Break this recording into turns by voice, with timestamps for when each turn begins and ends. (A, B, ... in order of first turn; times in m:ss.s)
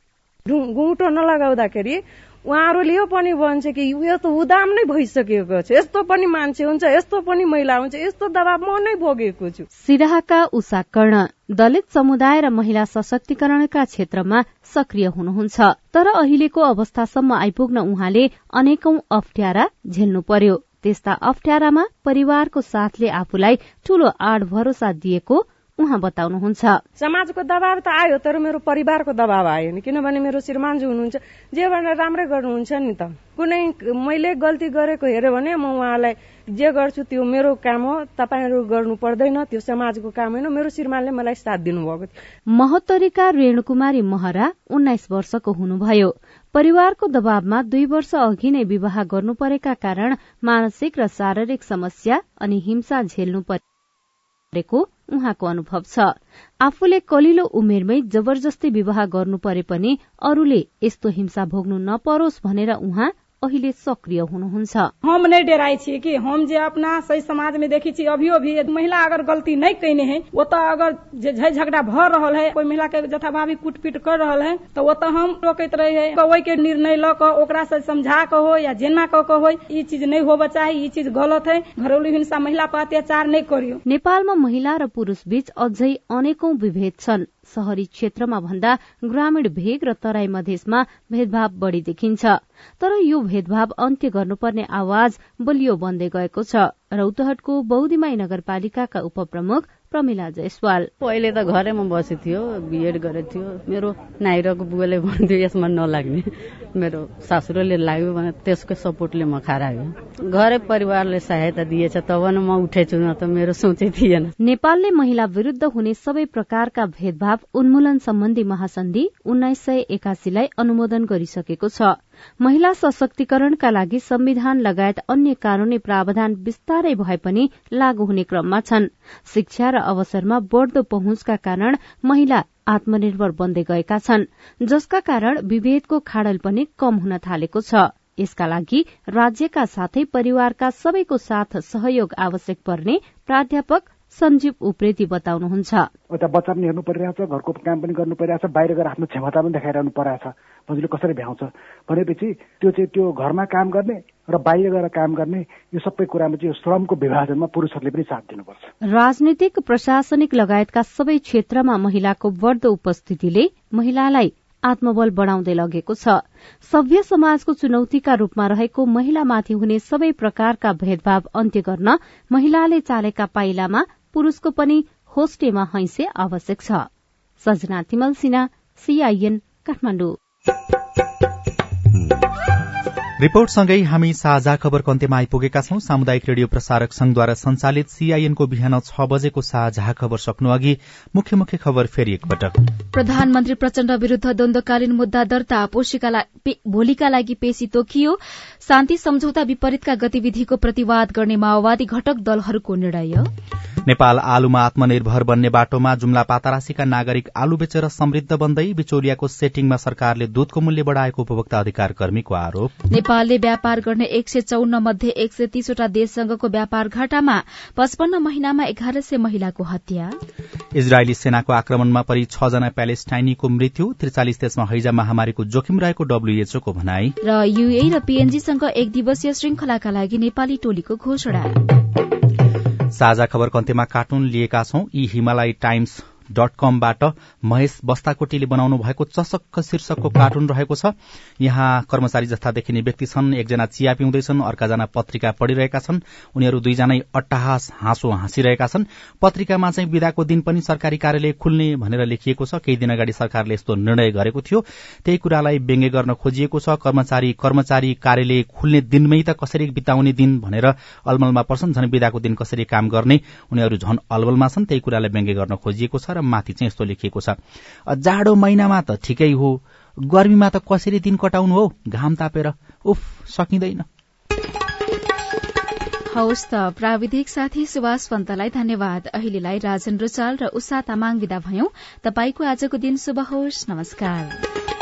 0:00.5-0:09.6 A
0:09.8-0:26.8 B
0:27.0-0:42.1 A
0:42.5-0:53.6 B
0:54.5-1:04.9 B
1:05.0-1:23.8 C
1:23.8-1:40.9 B
1:41.0-1:54.3 D
1:54.4-2:25.9 B
2:26.1-2:38.7 E
2:38.8-2:56.9 B
2:57.4-3:00.2 B
3:03.2-3:12.6 F
3:12.9-3:23.3 G
3:23.8-3:32.7 F
3:32.9-3:40.1 G
3:40.7-3:47.2 F
3:47.2-3:51.6 G
3:52.9-4:33.8 F
4:36.1-4:44.4 G